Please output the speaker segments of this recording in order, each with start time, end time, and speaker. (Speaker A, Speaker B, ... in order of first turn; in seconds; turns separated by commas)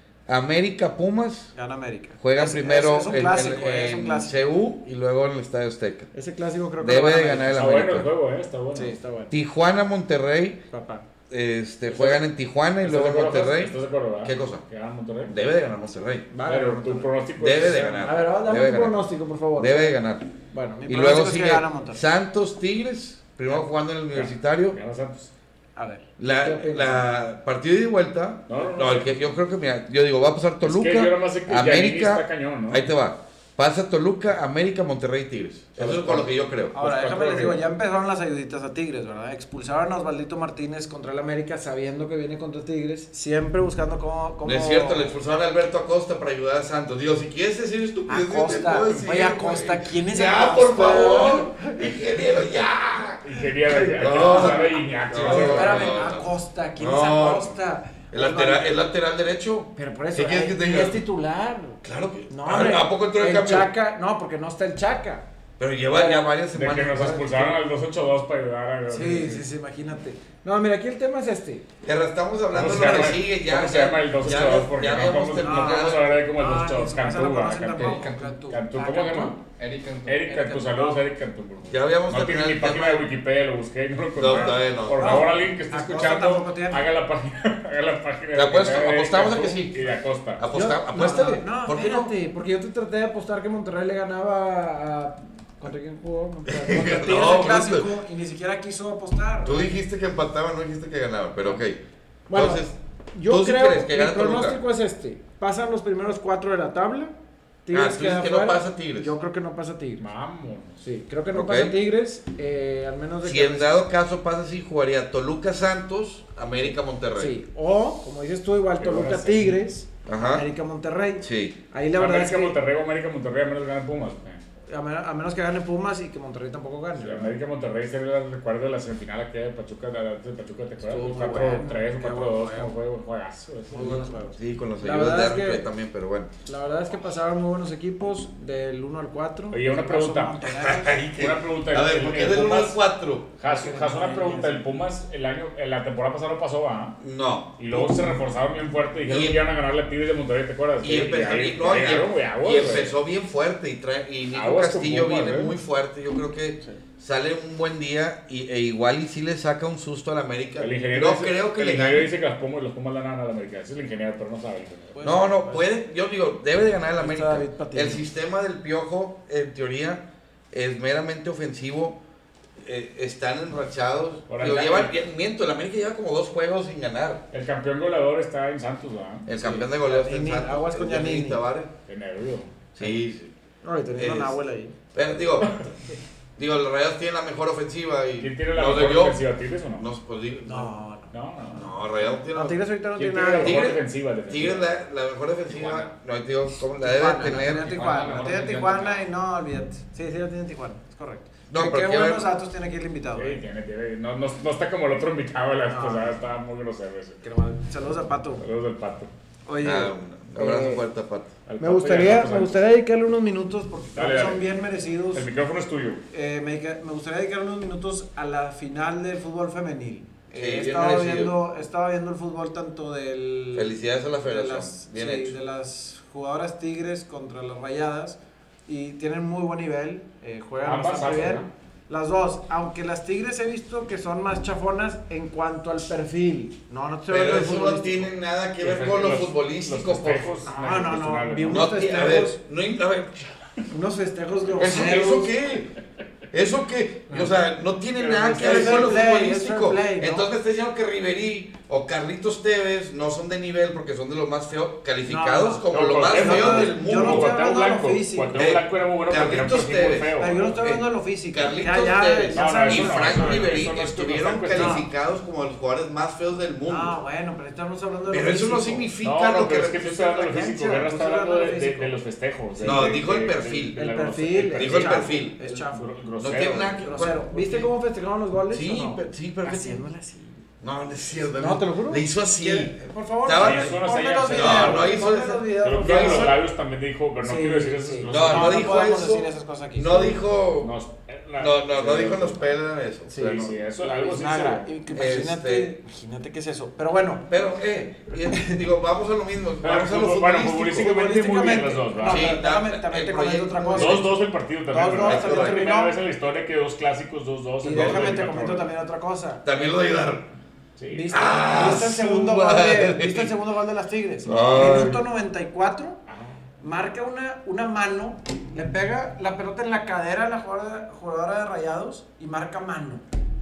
Speaker A: 0.3-1.5, Speaker B: 1.6-4.3, Speaker A: 2.2-6.1, Speaker B: 6.1-7.5, Speaker A: 6.8-8.1, Speaker C: 7.4-9.0, Speaker B: 8.7-9.3, Speaker A: 9.3-10.6, Speaker B: 10.7-11.1, Speaker A: 11.3-14.6, Speaker C: 11.9-12.2, Speaker C: 12.8-15.3, Speaker A: 15.3-16.3, Speaker B: 16.3-17.1, Speaker C: 16.5-18.1, Speaker A: 17.4-19.0, Speaker B: 17.9-20.0, Speaker A: 19.6-20.3, Speaker B: 20.5-22.0, Speaker A: 20.9-24.8, Speaker C: 24.1-25.3, Speaker B: 25.8-27.1, Speaker A: 26.2-36.8, Speaker C: 28.5-29.2, Speaker C: 30.6-32.9, Speaker C: 35.8-37.6, Speaker B: 36.7-45.1, Speaker A: 44.4-53.2, Speaker B: 48.1-51.9, Speaker C: 53.2-56.1, Speaker B: 53.7-58.7, Speaker A: 53.9-57.5, Speaker A: 58.1-61.0, Speaker B: 59.8-65.2, Speaker A: 61.8-63.7, Speaker A: 65.6-67.6, Speaker B: 65.9-66.3, Speaker C: 66.5-69.5, Speaker B: 68.9-71.7, Speaker A: 71.8-76.1, Speaker C: 72.5-79.4, Speaker B: 75.4-79.4, Speaker D: 77.7-78.4, Speaker D: 79.5-80.2, Speaker C: 80.1-90.4, Speaker B: 80.3-81.0, Speaker A: 81.7-83.1, Speaker A: 84.2-85.2, Speaker B: 84.3-86.8, Speaker A: 88.3-92.1, Speaker B: 90.5-99.7, Speaker A: 96.5-97.9, Speaker A: 99.4-101.8, Speaker B: 102.3-107.1, Speaker A: 102.3-102.8, Speaker A: 103.3-104.6, Speaker B: 107.7-110.0, Speaker A: 107.7-109.1, Speaker C: 110.0-110.8, Speaker B: 110.8-113.8, Speaker A: 111.3-111.8, Speaker A: 113.2-117.4, Speaker B: 117.2-122.6, Speaker C: 118.8-119.6, Speaker A: 120.1-120.5, Speaker A: 121.2-121.6, Speaker C: 122.0-124.4, Speaker B: 124.7-127.3, Speaker C: 127.0-134.1, Speaker B: 130.8-132.7, Speaker B: 133.7-135.6, Speaker A: 134.3-136.3, Speaker B: 136.4-141.0, Speaker C: 139.5-140.4, Speaker A: 140.4-143.3, Speaker C: 141.1-142.8, Speaker C: 143.4-147.0, Speaker B: 143.4-144.6, Speaker A: 147.0-147.6, Speaker C: 147.6-153.0, Speaker B: 147.7-148.0, Speaker A: 149.1-149.4, Speaker A: 150.8-162.1, Speaker C: 154.3-155.6, Speaker C: 160.6-165.0, Speaker B: 164.9-165.7, Speaker A: 165.0-172.0, Speaker B: 167.0-168.1, Speaker A: 172.6-177.2, Speaker C: 174.3-174.9, Speaker C: 177.3-179.3, Speaker A: 179.3-181.7, Speaker B: 179.3-181.4, Speaker C: 181.9-182.9, Speaker A: 182.8-183.3, Speaker B: 183.6-184.7, Speaker A: 184.0-184.4, Speaker A: 184.9-185.6, Speaker C: 185.4-185.7, Speaker A: 186.4-189.2, Speaker C: 188.2-189.8, Speaker A: 189.8-190.8, Speaker B: 190.4-193.7, Speaker C: 191.1-191.7, Speaker A: 191.5-192.6, Speaker C: 193.0-194.7, Speaker A: 193.4-197.7, Speaker C: 195.5-195.9, Speaker B: 196.8-203.4, Speaker D: 197.3-198.9, Speaker C: 197.6-199.0, Speaker A: 201.5-202.3, Speaker C: 203.2-207.2, Speaker B: 205.7-206.2, Speaker B: 207.2-208.4, Speaker C: 208.4-209.1, Speaker B: 209.5-210.8, Speaker A: 209.6-211.3, Speaker C: 211.5-212.6, Speaker B: 211.6-215.2, Speaker C: 214.0-214.4, Speaker C: 215.1-216.0, Speaker B: 216.1-238.1, Speaker A: 220.3-221.3, Speaker A: 223.6-225.4, Speaker C: 230.6-231.5, Speaker A: 237.1-240.4, Speaker C: 238.6-241.7, Speaker B: 240.5-242.4, Speaker A: 241.5-243.3, Speaker B: 243.7-245.3, Speaker A: 244.6-245.7, Speaker A: 246.3-257.4, Speaker C: 248.0-248.9, Speaker B: 248.3-250.3, Speaker B: 255.1-258.4, Speaker C: 255.7-260.7, Speaker A: 258.4-266.9, Speaker B: 260.2-263.7, Speaker C: 262.3-264.8, Speaker B: 264.5-264.9, Speaker B: 266.7-268.9, Speaker A: 268.1-269.8, Speaker C: 269.0-276.8, Speaker B: 269.8-271.9, Speaker B: 272.6-273.0, Speaker A: 272.6-273.8, Speaker B: 273.8-275.9, Speaker A: 274.6-275.5, Speaker A: 276.2-277.7, Speaker B: 276.8-280.4, Speaker A: 278.5-279.8, Speaker A: 280.6-282.7, Speaker B: 281.4-286.4, Speaker A: 283.2-283.8, Speaker C: 283.4-285.0, Speaker A: 284.3-286.4, Speaker C: 285.6-288.8, Speaker B: 287.2-290.2, Speaker A: 288.1-290.7, Speaker C: 290.6-292.6, Speaker A: 291.4-293.5, Speaker B: 293.1-297.3, Speaker C: 293.2-294.7, Speaker A: 294.9-295.7, Speaker A: 297.3-300.9, Speaker B: 298.3-298.6, Speaker C: 299.6-302.4, Speaker B: 300.7-304.1, Speaker A: 302.0-304.1, Speaker C: 303.8-308.7, Speaker B: 304.7-305.9, Speaker A: 305.0-305.7, Speaker B: 307.6-309.4, Speaker A: 307.7-308.3, Speaker A: 309.4-310.3, Speaker C: 310.8-311.1, Speaker B: 310.9-316.0, Speaker A: 311.1-313.3, Speaker A: 314.2-315.0, Speaker C: 316.1-316.4, Speaker B: 316.6-323.0